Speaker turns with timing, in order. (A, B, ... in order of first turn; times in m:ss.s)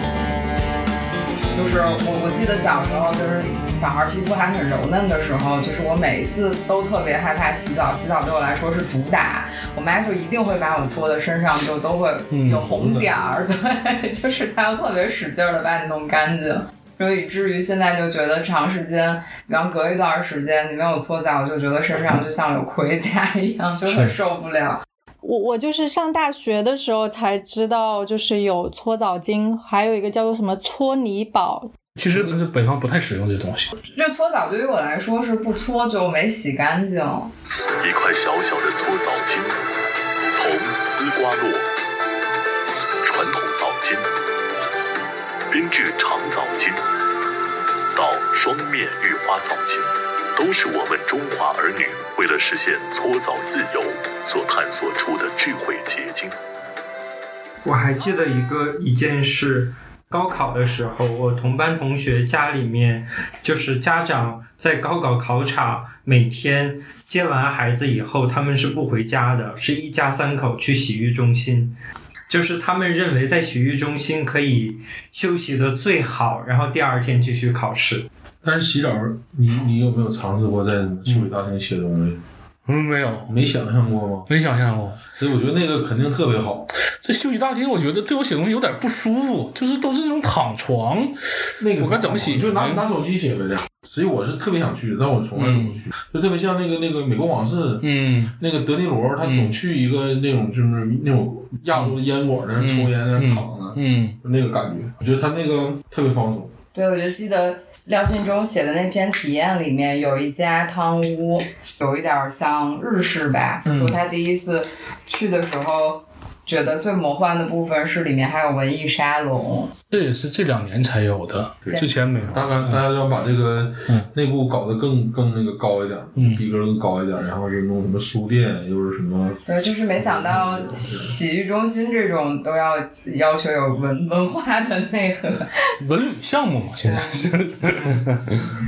0:01.5-0:24.8 A
0:12.3-0:12.7 B
0:12.4-0:13.4 C
0:23.9-0:24.1 B
0:25.2-0:31.7 D
0:32.0-0:33.7 B
0:33.8-0:37.3 A
0:37.8-0:39.5 E
0:40.3-0:41.6 E
0:43.0-0:44.1 E
0:45.5-0:46.8 E
0:47.9-0:56.3 E
0:57.6-1:11.8 F
1:12.3-1:18.1 F
1:18.4-1:22.2 C
1:22.6-1:23.3 B
1:23.3-1:24.3 C
1:24.3-1:25.0 B
1:25.1-1:26.7 C
1:26.9-1:31.2 B
1:31.6-1:37.9 C
1:31.8-1:32.8 B
1:35.3-1:35.8 B
1:37.8-1:38.4 B
1:38.4-1:46.5 C
1:39.2-1:39.6 B
1:42.6-1:44.2 B
1:46.7-1:59.7 A
1:53.6-1:54.0 C
1:59.9-2:02.8 B
2:01.6-2:09.4 C
2:06.2-2:06.4 B
2:09.4-2:15.5 A
2:10.0-2:11.1 C
2:15.8-2:18.4 B
2:16.9-2:17.2 A